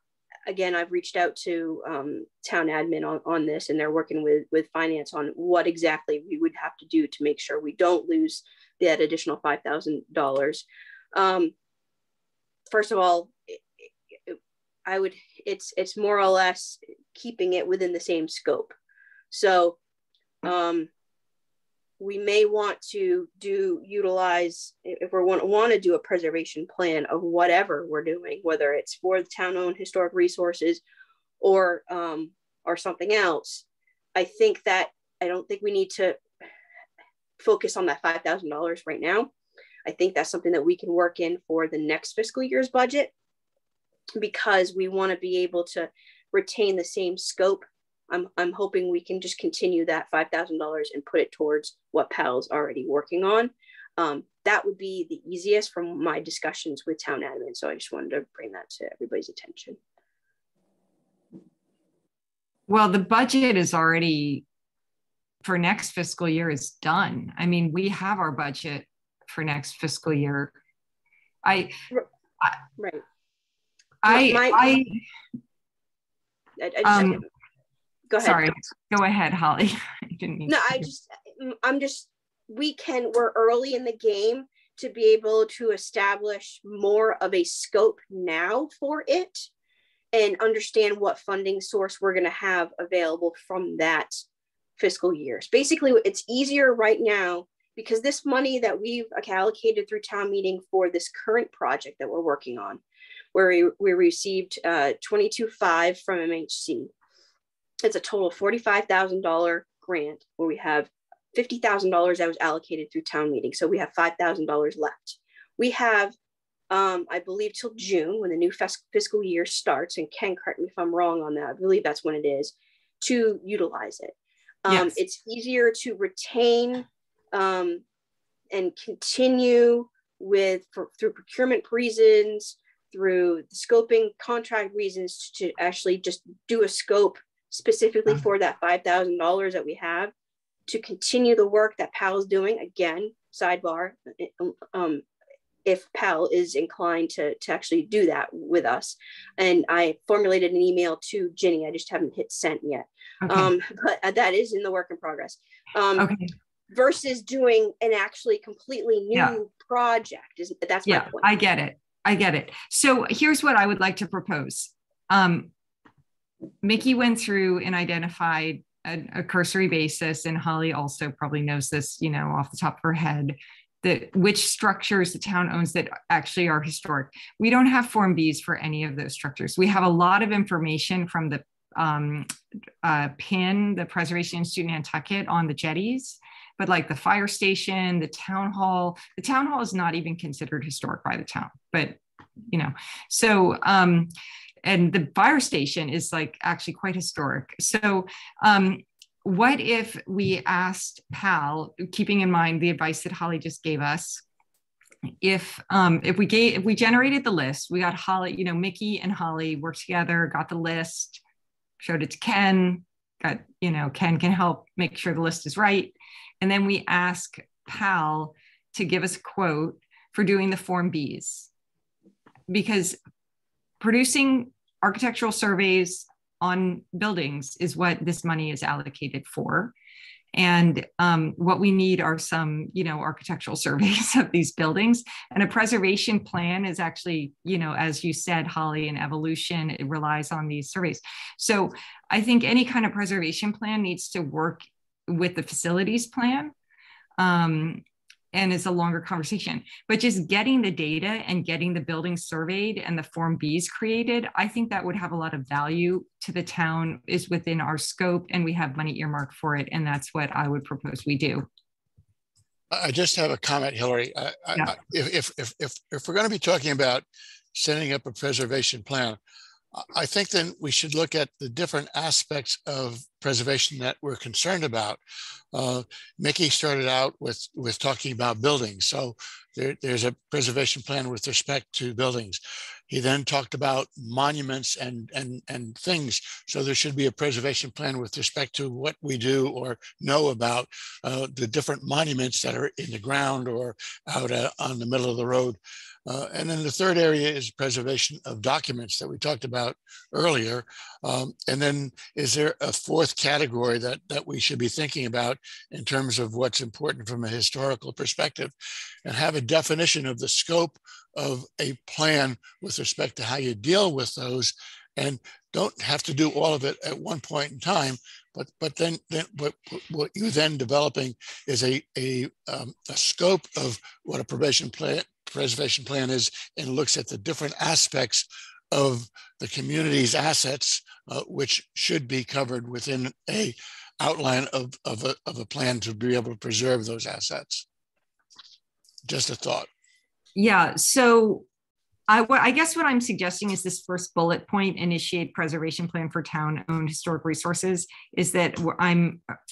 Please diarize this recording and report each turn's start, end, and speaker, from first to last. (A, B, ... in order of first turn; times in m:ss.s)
0:00.5-0:11.5 A
0:12.7-0:13.6 A
0:14.3-0:18.7 A
0:19.3-0:19.8 A
0:20.4-0:20.9 A
0:22.0-0:30.8 A
0:31.4-0:33.6 A
0:34.2-0:36.2 A
0:37.4-0:39.3 A
0:39.8-0:43.1 A
0:44.2-0:59.8 A
1:02.7-1:04.4 B
1:05.4-1:10.5 B
1:11.4-1:11.7 B
1:12.8-1:13.0 A
1:14.0-1:15.0 B
1:14.1-1:14.8 A
1:16.6-1:17.2 A
1:16.8-1:17.2 B
1:18.1-1:18.5 A
1:18.2-1:20.9 B
1:20.5-1:29.5 A
1:30.1-1:34.2 A
1:34.8-1:42.8 A
1:43.3-1:46.9 A
1:47.8-1:56.2 A
1:56.7-2:07.8 A
2:04.7-2:05.0 B
2:08.5-2:20.1 A
2:20.7-2:25.0 A
2:25.6-2:36.1 A
2:33.2-2:33.5 B
2:36.0-2:36.3 B
2:36.7-2:41.3 A
2:40.9-2:45.5 B
2:46.6-3:02.3 B
3:02.8-3:12.0 B
3:12.5-3:14.1 B
3:14.6-3:24.2 B
3:25.2-3:31.2 B
3:31.8-3:41.5 B
3:42.5-3:43.0 B
3:43.8-3:49.7 B
3:50.3-4:06.5 B
4:07.2-4:21.5 B
4:22.7-4:29.2 C
4:29.8-4:35.0 C
4:35.5-5:08.5 C
5:09.0-5:37.7 C
5:39.0-5:39.7 C
5:40.4-5:41.5 B
5:42.1-5:49.2 B